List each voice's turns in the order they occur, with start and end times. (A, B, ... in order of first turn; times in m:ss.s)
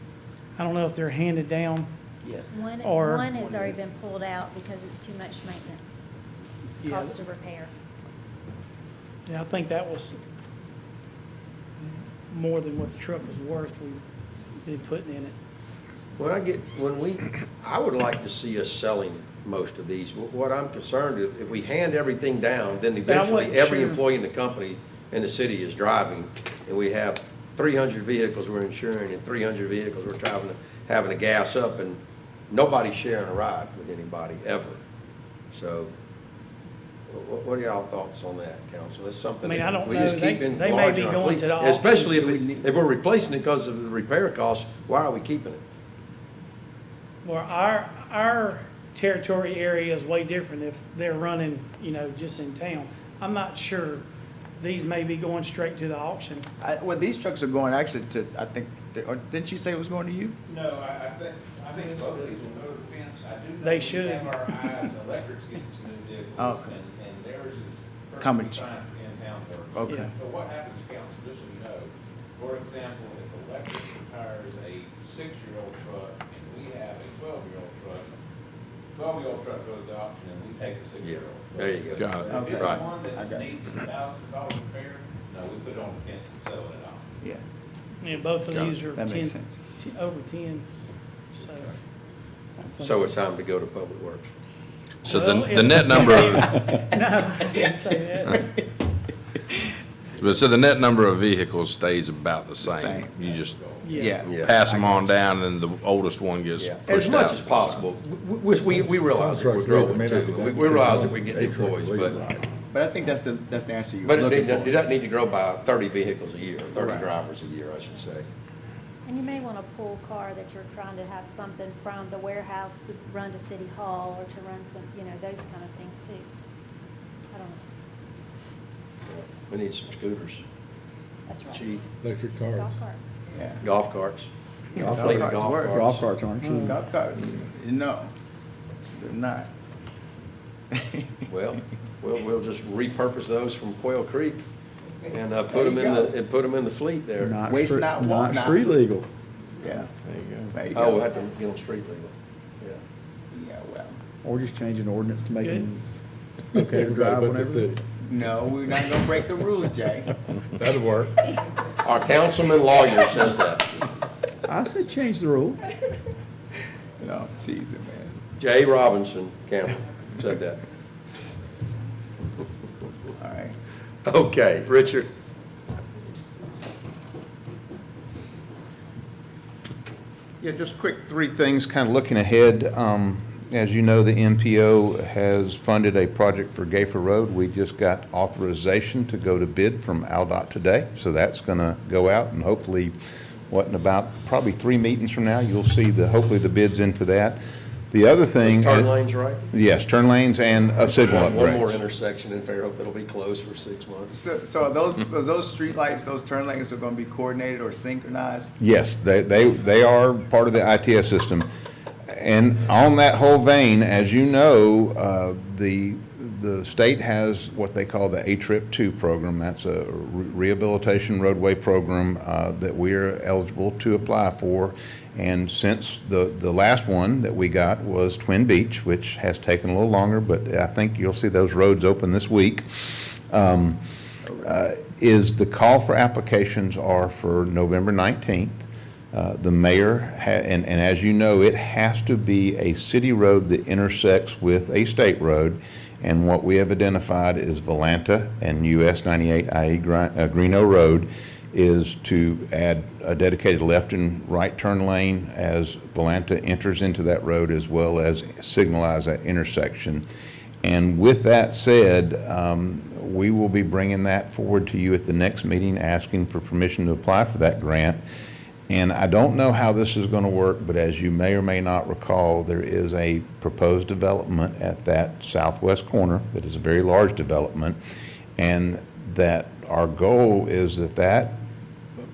0:00.6-0:01.9 A
0:02.2-0:02.5 B
0:02.5-0:06.0 C
0:02.8-0:03.3 A
0:03.4-0:03.9 B
0:06.8-0:07.2 A
0:06.8-0:07.7 C
0:09.3-0:10.2 A
0:12.3-0:14.0 A
0:14.6-0:15.4 A
0:16.2-0:34.8 D
0:23.0-0:24.0 A
0:35.5-0:35.9 D
0:37.1-0:45.6 D
0:39.4-0:42.2 A
0:42.2-0:42.7 B
0:47.2-0:54.1 A
0:54.6-0:56.5 A
0:56.6-1:00.4 B
1:00.5-1:18.1 E
1:03.6-1:04.4 A
1:06.4-1:06.7 B
1:08.2-1:08.6 B
1:09.8-1:10.1 B
1:19.0-1:27.0 E
1:21.0-1:22.8 D
1:22.0-1:22.3 F
1:22.3-1:23.5 B
1:28.0-1:30.7 A
1:28.5-1:28.8 F
1:28.9-1:29.6 B
1:31.3-1:31.7 A
1:32.8-1:34.3 D
1:35.0-1:36.6 F
1:35.0-1:38.5 A
1:40.2-1:43.6 F
1:42.6-1:43.2 B
1:43.8-1:44.1 A
1:43.9-1:45.2 B
1:44.2-1:47.7 F
1:44.2-1:44.5 D
1:46.6-1:47.8 B
1:46.8-1:52.2 D
1:48.8-1:52.5 G
1:52.7-1:54.9 B
1:54.0-1:58.3 D
1:56.8-1:57.0 B
1:59.0-2:06.3 C
2:07.3-2:07.6 C
2:09.1-2:10.4 D
2:11.3-2:13.0 C
2:11.5-2:11.8 D
2:12.0-2:12.7 G
2:13.3-2:13.6 B
2:13.6-2:14.3 D
2:14.8-2:15.8 B
2:14.8-2:16.8 H
2:14.8-2:16.1 D
2:16.4-2:16.8 A
2:16.4-2:18.1 B
2:18.9-2:19.5 B
2:20.7-2:21.1 B
2:21.3-2:24.4 D
2:25.1-2:27.4 D
2:25.5-2:26.1 B
2:27.2-2:29.1 H
2:27.5-2:28.7 B
2:29.6-2:29.9 B
2:30.0-2:30.6 F
2:30.5-2:31.0 B
2:30.7-2:32.8 D
2:33.3-2:34.0 B
2:34.2-2:35.8 H
2:35.4-2:35.7 A
2:36.5-2:37.8 G
2:36.6-2:37.8 H
2:38.0-2:40.1 B
2:40.4-2:41.1 G
2:41.8-2:43.7 D
2:44.5-2:45.6 H
2:47.0-2:48.2 B
2:48.4-2:50.6 D
2:53.2-2:53.6 B
2:54.0-2:55.1 D
3:00.4-3:13.0 I
3:13.5-3:17.4 I
3:17.9-3:19.0 I
3:18.4-3:19.4 D
3:19.5-3:21.8 I
3:20.8-3:24.2 D
3:24.1-3:28.5 B
3:28.6-3:31.5 I
3:32.1-3:53.8 I
3:54.4-4:20.1 I
4:20.6-4:28.0 I
4:28.7-4:37.8 I
4:38.4-4:41.4 I